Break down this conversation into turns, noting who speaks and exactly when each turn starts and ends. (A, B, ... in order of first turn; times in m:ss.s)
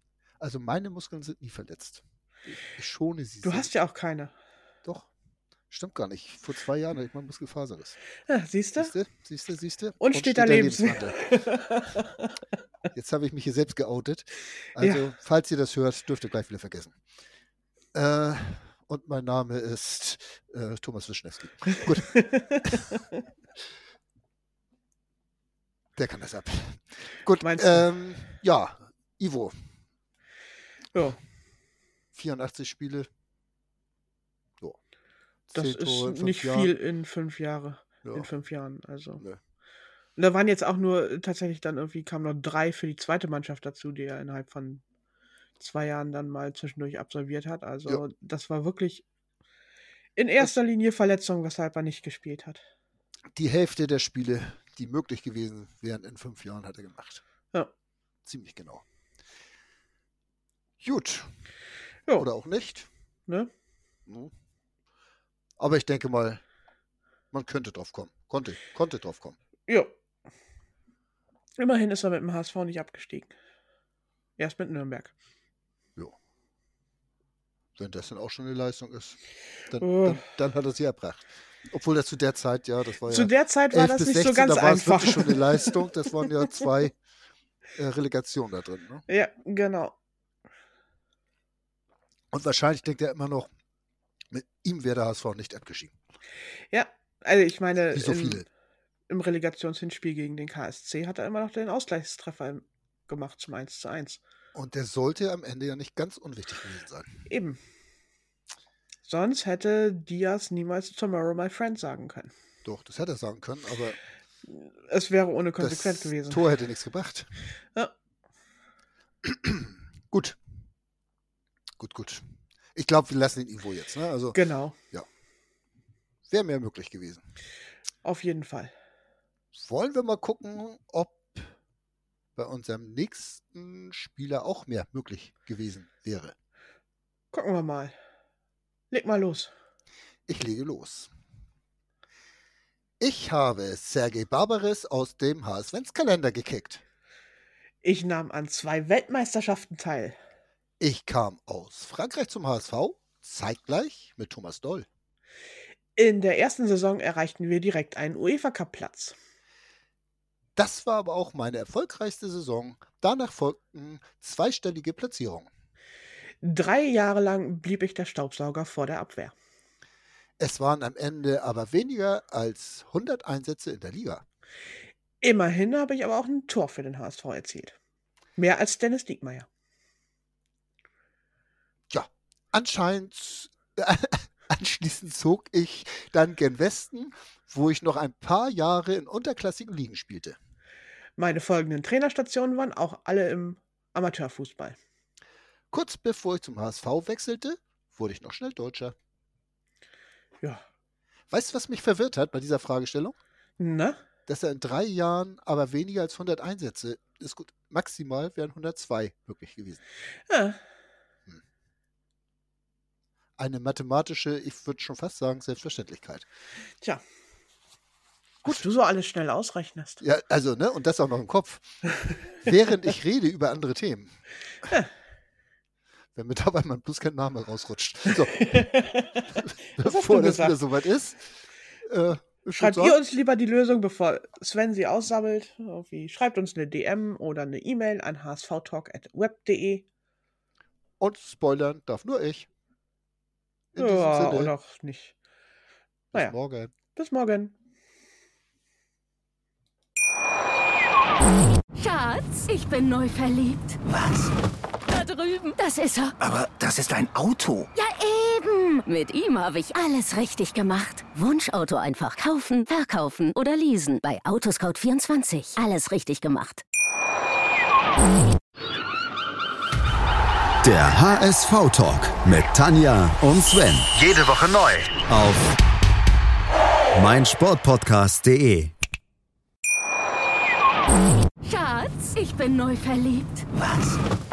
0:00.4-0:03.7 A
0:03.4-0:04.3 B
0:04.8-0:05.1 A
0:05.7-0:08.0 A
0:08.3-0:08.9 B
0:08.8-0:11.2 A
0:10.0-0:12.3 B
0:12.9-0:16.9 A
0:14.8-0:15.0 B
0:17.9-0:22.8 A
0:22.3-0:23.0 B
0:26.0-0:29.5 A
0:27.4-0:27.9 B
0:30.9-0:31.2 B
0:32.1-0:33.1 A
0:35.5-0:36.7 A
0:35.5-0:39.2 B
0:40.2-0:44.8 B
0:45.6-0:49.0 B
0:50.2-0:52.6 B
0:53.3-0:57.2 A
0:58.2-0:58.8 A
1:00.8-1:01.3 A
1:02.1-1:02.9 A
1:05.6-1:06.4 A
1:07.3-1:09.4 A
1:11.6-1:13.3 B
1:14.4-1:15.1 B
1:17.8-1:19.2 A
1:19.7-1:26.9 A
1:19.8-1:20.2 B
1:23.1-1:26.2 B
1:27.8-1:29.0 A
1:29.1-1:29.9 B
1:32.3-1:33.5 A
1:34.3-1:35.9 A
1:36.7-1:38.4 B
1:37.9-1:38.4 A
1:39.1-1:44.2 B
1:44.5-1:47.2 A
1:47.3-1:47.6 B
1:49.0-1:52.3 B
1:52.6-1:54.0 A
1:54.5-1:56.4 B
1:55.6-1:57.3 A
1:59.2-2:00.4 A
2:01.8-2:02.2 A
2:02.7-2:04.4 A
2:04.3-2:04.7 B
2:06.3-2:07.2 A
2:08.0-2:08.7 B
2:09.5-2:11.5 A
2:12.4-2:16.3 A
2:17.3-2:17.9 B
2:18.9-2:19.5 B
2:20.3-2:21.1 A
2:23.0-2:26.8 A
2:27.8-2:30.2 B
2:30.8-2:34.8 A
2:36.0-2:39.2 B
2:40.6-2:45.5 A
2:46.4-2:49.3 B
2:50.4-2:54.2 A
2:55.2-2:57.7 B
2:58.4-2:59.5 B
3:01.9-3:10.4 A
3:11.2-3:14.8 B
3:15.7-3:18.9 A
3:21.3-3:23.2 A
3:23.6-3:24.0 B
3:24.3-3:29.8 A
3:30.3-3:30.6 B
3:33.4-3:36.2 A
3:38.4-3:40.0 B
3:40.0-3:44.1 A
3:46.1-3:48.7 A
3:48.4-3:49.3 B
3:49.4-3:51.2 A
3:49.8-3:50.6 B
3:51.8-3:53.0 A
3:52.6-3:59.8 B
4:01.0-4:02.5 A
4:03.7-4:04.5 A
4:03.8-4:05.1 B
4:06.1-4:06.7 A
4:06.9-4:07.5 B
4:11.8-4:13.8 C
4:13.9-4:14.3 D
4:14.9-4:16.2 C
4:16.2-4:17.7 D
4:17.7-4:26.6 C
4:30.6-4:34.4 E
4:34.0-4:35.0 D
4:34.9-4:35.5 E
4:36.9-4:38.7 E
4:41.4-4:43.4 C
4:43.6-4:44.0 D